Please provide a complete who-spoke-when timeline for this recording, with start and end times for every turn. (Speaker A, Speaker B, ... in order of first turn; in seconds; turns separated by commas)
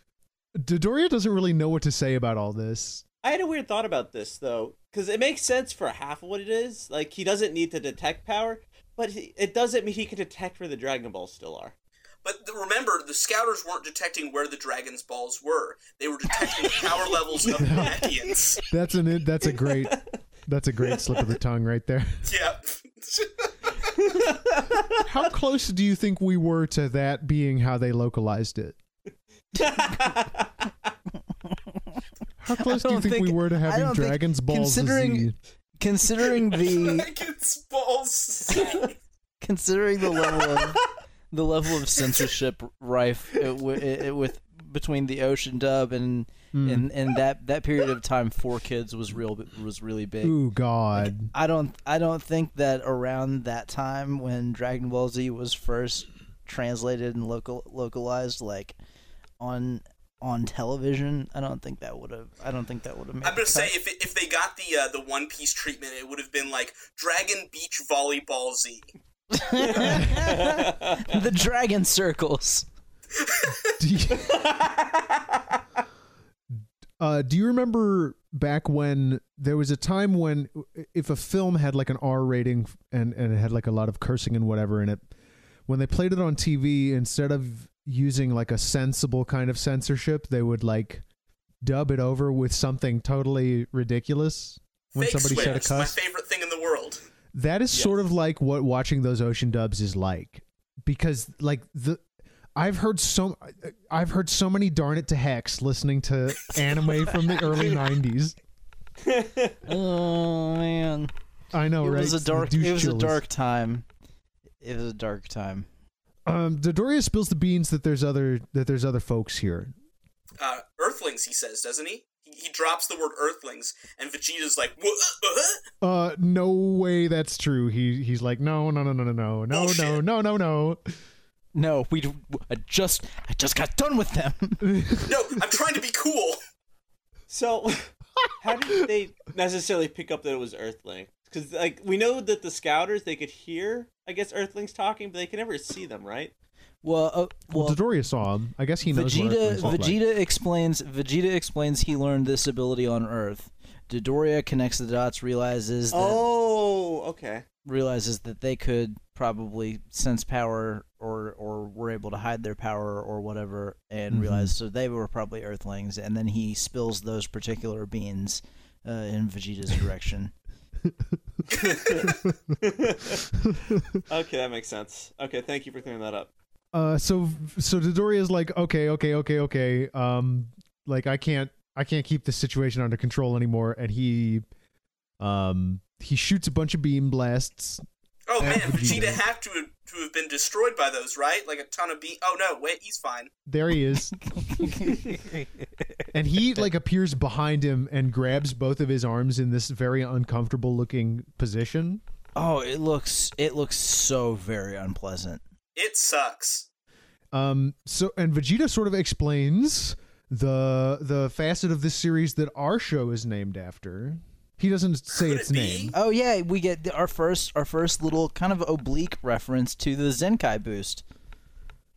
Speaker A: 0.6-3.0, Speaker B: 3.2-11.7, Speaker C: 12.2-18.6, Speaker B: 16.7-18.1, Speaker A: 17.6-18.1, Speaker A: 18.7-22.3, Speaker B: 19.5-20.0, Speaker B: 20.9-21.3, Speaker C: 22.2-24.1, Speaker B: 24.0-25.1, Speaker A: 25.0-28.8, Speaker B: 29.6-30.9, Speaker D: 31.5-32.0, Speaker A: 32.4-35.4, Speaker D: 32.5-37.1, Speaker C: 36.5-39.0, Speaker D: 39.4-50.4, Speaker B: 40.1-40.8, Speaker A: 46.5-46.9, Speaker A: 50.2-51.3, Speaker D: 51.1-58.8, Speaker D: 59.4-63.7, Speaker C: 63.2-68.9, Speaker D: 69.3-72.7, Speaker B: 69.8-71.1, Speaker C: 73.2-73.7, Speaker A: 73.8-74.5, Speaker B: 74.1-75.6, Speaker A: 77.0-85.0, Speaker A: 85.7-91.0, Speaker A: 91.6-96.0, Speaker C: 95.0-97.0, Speaker A: 97.3-102.0, Speaker B: 97.7-98.0, Speaker A: 102.6-108.4, Speaker B: 109.0-109.6, Speaker D: 109.7-111.1, Speaker A: 111.5-113.2, Speaker D: 111.8-113.9, Speaker D: 114.6-115.7, Speaker A: 116.3-119.7, Speaker C: 120.4-125.7, Speaker A: 125.8-130.8, Speaker C: 129.5-130.0, Speaker D: 131.6-134.7, Speaker A: 134.6-135.4, Speaker C: 135.0-136.4, Speaker B: 137.3-146.3, Speaker D: 146.8-147.8, Speaker A: 147.5-150.0, Speaker D: 148.9-156.3, Speaker B: 155.9-157.4, Speaker D: 157.7-170.3, Speaker A: 164.1-164.5, Speaker C: 171.5-172.2, Speaker B: 171.5-173.3, Speaker A: 173.4-174.0, Speaker B: 174.1-176.3, Speaker A: 176.7-184.4, Speaker A: 185.2-187.8, Speaker C: 188.3-193.3, Speaker A: 188.4-189.2, Speaker A: 193.5-194.7, Speaker D: 194.2-195.5, Speaker A: 196.1-202.0, Speaker D: 202.4-205.4, Speaker C: 205.8-206.7, Speaker A: 207.3-216.0, Speaker C: 215.1-215.9, Speaker D: 215.9-221.0